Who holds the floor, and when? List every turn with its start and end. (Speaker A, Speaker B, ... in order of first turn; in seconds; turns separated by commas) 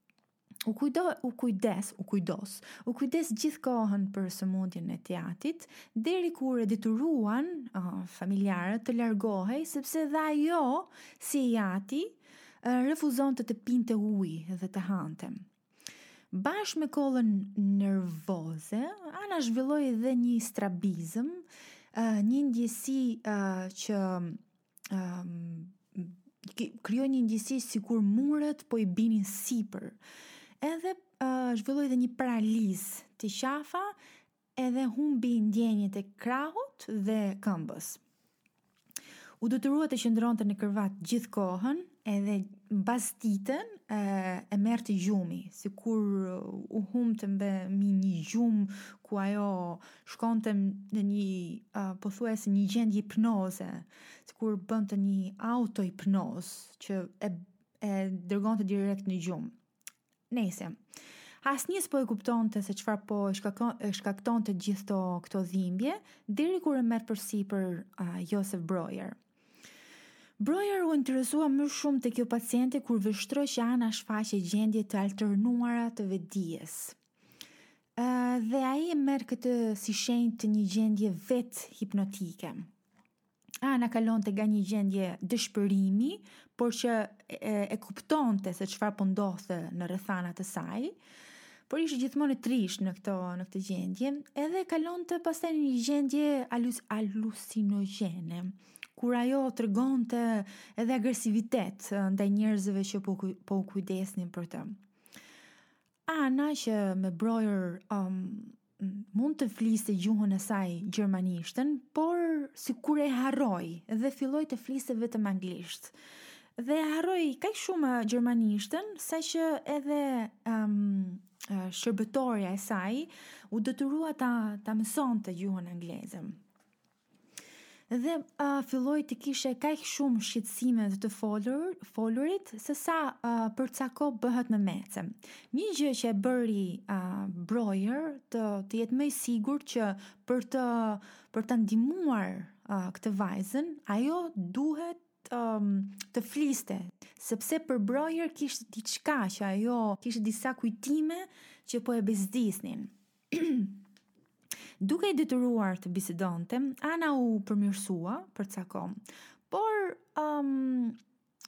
Speaker A: 0.7-15.4, Speaker A: 16.3-30.0, Speaker A: 30.6-34.0, Speaker A: 34.6-38.0, Speaker A: 39.4-59.5, Speaker A: 60.3-60.8, Speaker A: 61.4-69.2, Speaker A: 70.4-77.0, Speaker A: 78.0-82.7, Speaker A: 83.6-91.0, Speaker A: 91.7-104.8, Speaker A: 106.1-115.9, Speaker A: 116.6-126.4, Speaker A: 127.9-153.8, Speaker A: 154.8-159.0, Speaker A: 159.5-161.0